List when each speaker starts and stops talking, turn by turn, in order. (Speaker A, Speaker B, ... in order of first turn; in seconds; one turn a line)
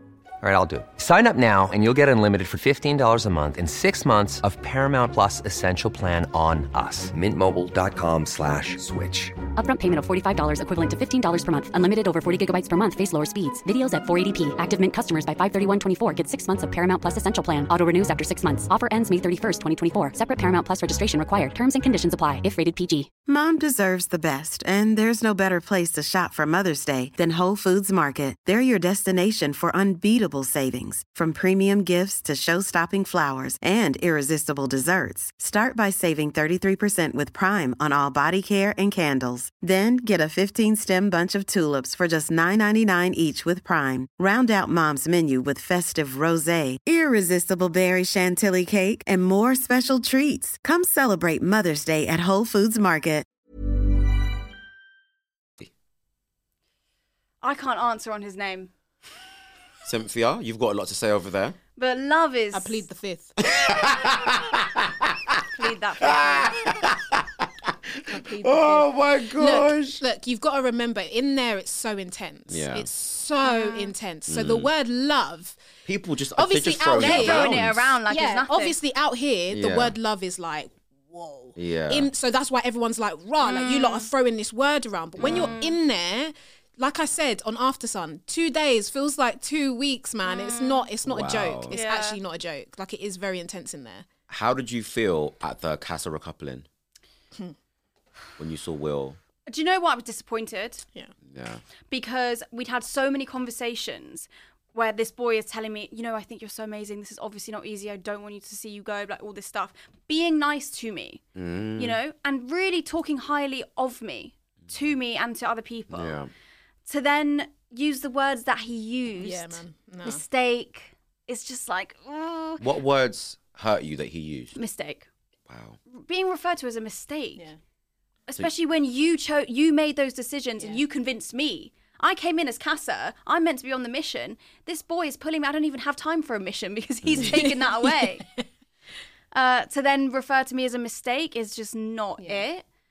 Speaker A: 0.4-9.4
Speaker B: 9.6-23.1
Speaker C: 23.3-53.3
Speaker D: 57.4-58.7
Speaker E: 59.9-61.6
Speaker D: 61.8-62.8
Speaker F: 62.5-63.3
Speaker E: 63.4-64.9
Speaker D: 65.5-66.5
Speaker E: 66.0-70.0
Speaker F: 68.1-75.6
Speaker E: 72.5-72.9
Speaker D: 73.5-73.9
Speaker E: 74.3-74.7
Speaker E: 75.9-78.0
Speaker F: 76.4-77.6
Speaker D: 77.0-78.8
Speaker F: 78.1-94.1
Speaker E: 79.5-80.0
Speaker E: 81.6-82.1
Speaker D: 83.4-84.1
Speaker E: 85.2-85.6
Speaker D: 85.2-85.7
Speaker D: 90.2-90.9
Speaker E: 91.0-91.8
Speaker D: 91.7-92.2
Speaker E: 94.3-96.7
Speaker E: 98.4-99.2
Speaker D: 99.5-100.9
Speaker E: 101.3-101.6
Speaker D: 101.9-111.3
Speaker E: 111.4-112.0
Speaker D: 111.8-116.2
Speaker E: 115.9-116.3
Speaker D: 116.9-122.6
Speaker F: 119.2-120.2
Speaker E: 122.6-124.6
Speaker D: 124.6-125.1
Speaker E: 125.5-125.8
Speaker D: 125.9-127.4
Speaker D: 128.3-138.2
Speaker E: 137.0-137.4
Speaker F: 137.2-138.4
Speaker D: 139.3-142.6
Speaker F: 142.2-142.4